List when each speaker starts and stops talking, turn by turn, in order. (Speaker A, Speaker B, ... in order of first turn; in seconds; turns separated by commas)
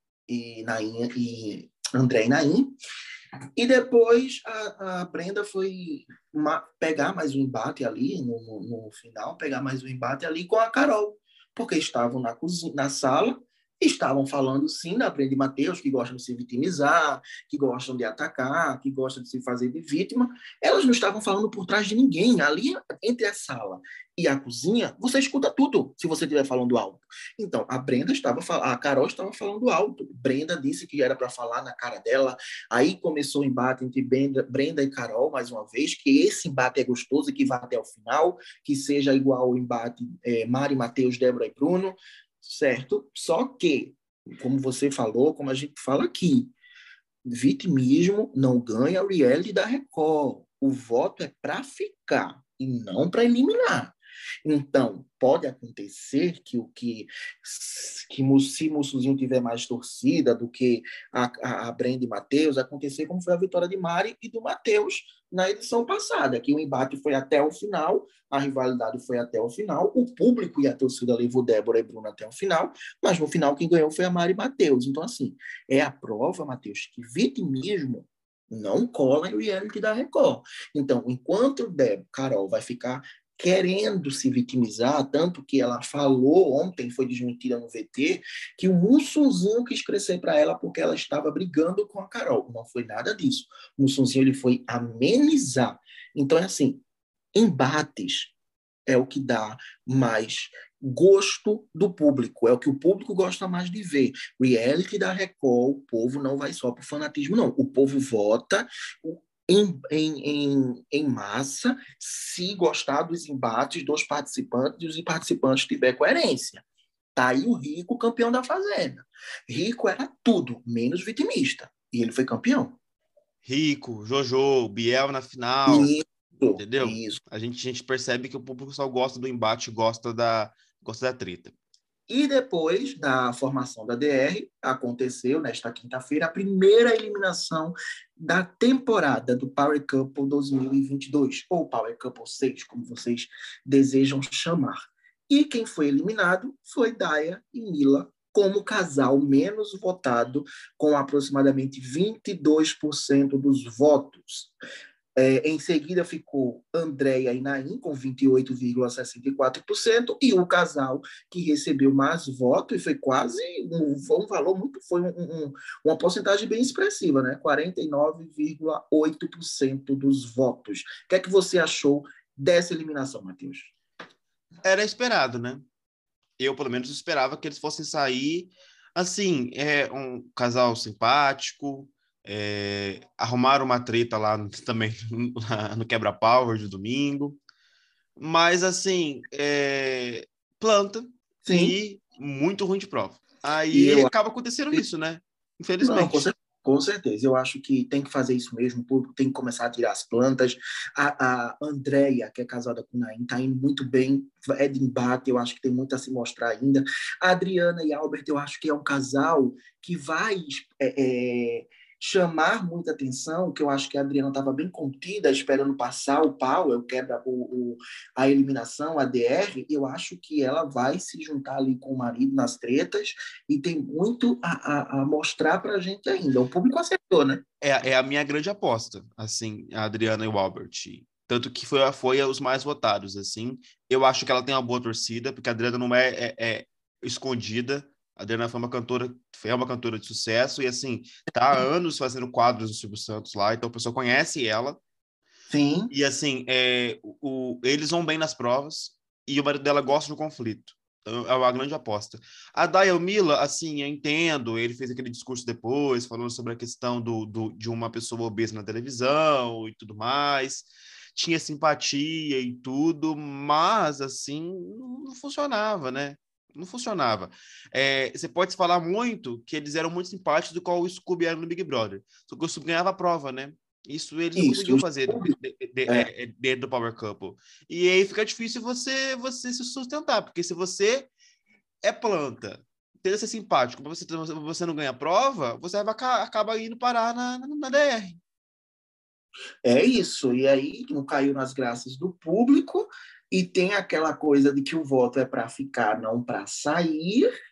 Speaker A: 0.3-2.7, Speaker A: 3.6-46.5, Speaker A: 47.2-96.8, Speaker A: 97.3-98.3, Speaker A: 98.9-116.6, Speaker A: 117.1-122.8, Speaker B: 123.4-125.9, Speaker A: 125.7-127.2, Speaker B: 126.6-131.5, Speaker A: 132.1-144.7, Speaker A: 145.3-154.5, Speaker A: 155.2-173.7, Speaker B: 174.6-175.6, Speaker B: 176.4-187.4, Speaker B: 188.2-196.3, Speaker A: 191.4-191.8, Speaker A: 193.7-194.1, Speaker A: 195.8-227.4, Speaker B: 227.6-244.8, Speaker A: 245.5-245.9, Speaker B: 245.9-281.1, Speaker A: 274.4-275.3, Speaker B: 281.8-288.2, Speaker A: 289.6-297.3